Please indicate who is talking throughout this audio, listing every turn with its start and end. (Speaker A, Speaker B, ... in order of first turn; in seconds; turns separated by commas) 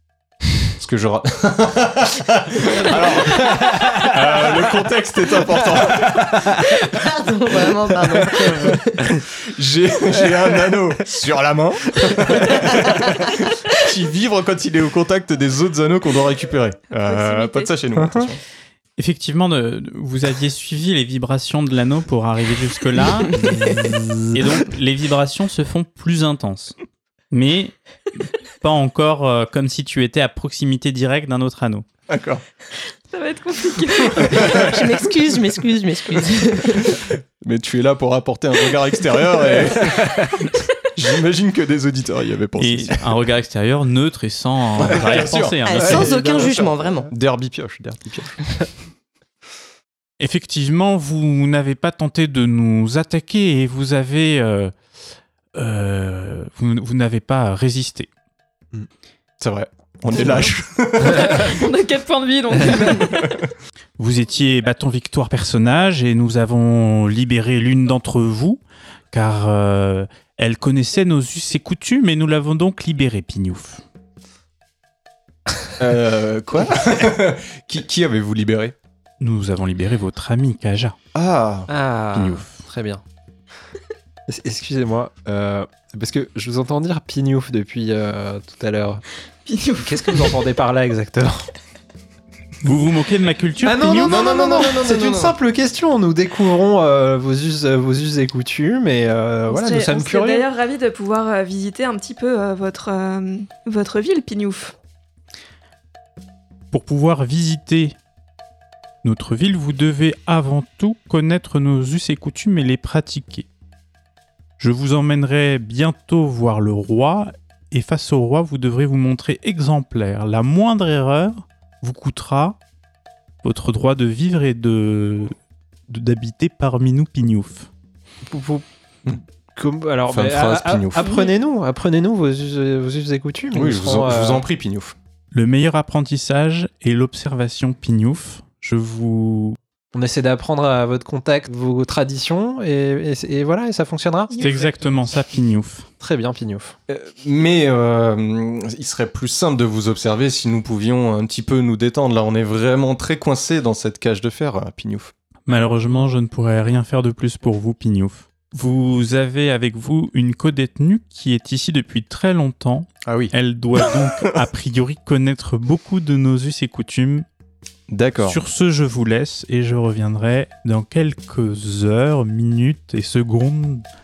Speaker A: 0.8-6.9, Speaker B: 3.4-4.1, Speaker C: 6.8-9.1, Speaker A: 8.1-8.6, Speaker A: 9.1-18.4, Speaker D: 16.9-17.7, Speaker B: 18.0-18.3, Speaker E: 19.0-26.8, Speaker B: 23.4-24.3, Speaker E: 27.3-31.9, Speaker A: 32.1-32.4, Speaker D: 33.1-34.8, Speaker A: 33.9-35.4, Speaker C: 34.5-37.0, Speaker A: 36.7-43.1, Speaker E: 42.6-46.5, Speaker A: 44.8-48.4, Speaker C: 45.6-47.1, Speaker E: 50.2-54.7, Speaker E: 55.5-58.1, Speaker A: 59.4-61.6, Speaker D: 61.0-63.3, Speaker A: 62.9-63.5, Speaker E: 64.0-68.6, Speaker E: 69.1-73.8, Speaker A: 75.8-78.8, Speaker E: 79.2-81.0, Speaker A: 81.2-81.7, Speaker B: 81.7-83.0, Speaker E: 82.1-82.6, Speaker B: 84.3-89.0, Speaker D: 89.5-90.4, Speaker B: 89.8-91.5, Speaker E: 92.6-94.3, Speaker B: 93.6-100.5, Speaker C: 94.0-95.2, Speaker A: 94.3-95.3, Speaker D: 99.5-104.8, Speaker E: 106.7-108.0, Speaker E: 109.0-113.5, Speaker E: 114.6-122.6, Speaker E: 123.4-125.4, Speaker E: 125.9-127.7, Speaker B: 128.3-128.7, Speaker B: 129.6-134.4, Speaker A: 130.1-131.1, Speaker D: 131.0-131.3, Speaker A: 133.5-134.9, Speaker E: 135.3-139.6, Speaker B: 139.9-144.5, Speaker E: 144.4-145.9, Speaker B: 146.0-146.8, Speaker A: 146.9-155.1, Speaker E: 155.5-167.3, Speaker A: 163.0-164.4, Speaker A: 167.9-168.4, Speaker E: 168.2-173.8